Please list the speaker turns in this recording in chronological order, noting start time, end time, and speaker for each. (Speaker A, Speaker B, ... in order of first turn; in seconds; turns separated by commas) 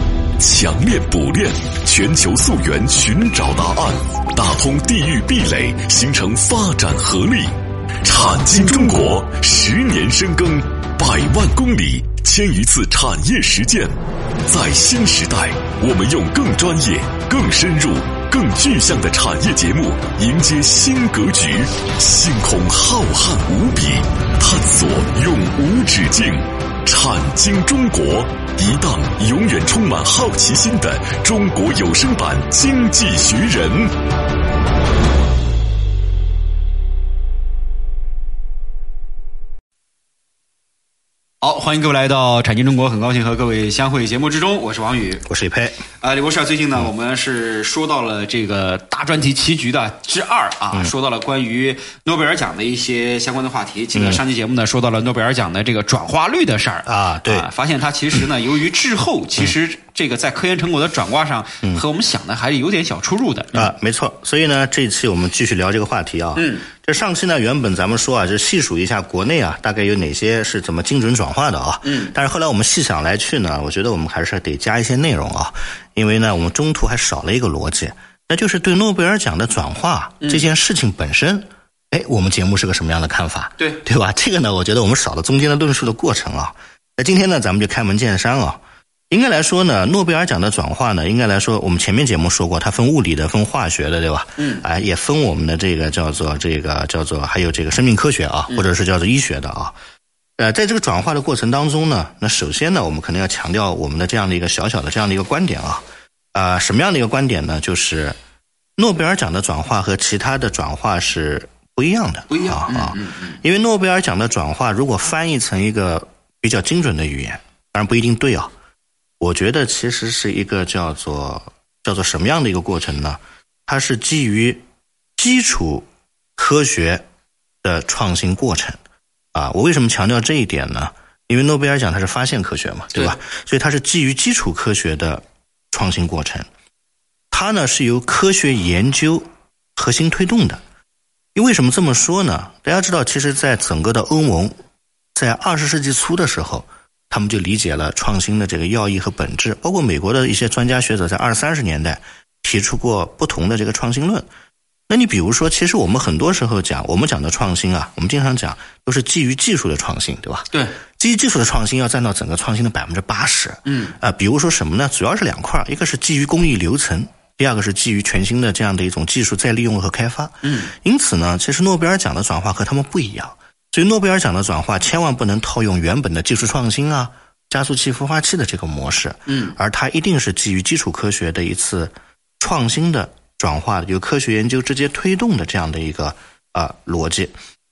Speaker A: 0.4-7.5, Speaker A: 8.0-13.9, Speaker A: 14.4-33.9, Speaker B: 41.4-45.2, Speaker C: 45.2-45.8, Speaker B: 46.0-63.7, Speaker C: 53.9-54.2, Speaker C: 56.9-57.5, Speaker C: 63.5-99.8, Speaker B: 66.3-66.7, Speaker B: 71.8-72.1, Speaker B: 80.2-80.5, Speaker B: 94.4-94.6, Speaker C: 100.4-105.8, Speaker C: 106.3-108.2, Speaker C: 108.8-118.5, Speaker B: 112.3-113.4, Speaker C: 119.2-124.6, Speaker C: 125.2-127.0, Speaker C: 127.6-128.8, Speaker C: 129.3-136.5, Speaker C: 137.3-140.6, Speaker C: 141.3-144.5, Speaker C: 145.1-154.3, Speaker C: 154.9-187.3, Speaker B: 160.5-160.8, Speaker B: 163.7-163.9, Speaker B: 170.4-170.7, Speaker B: 179.3-179.6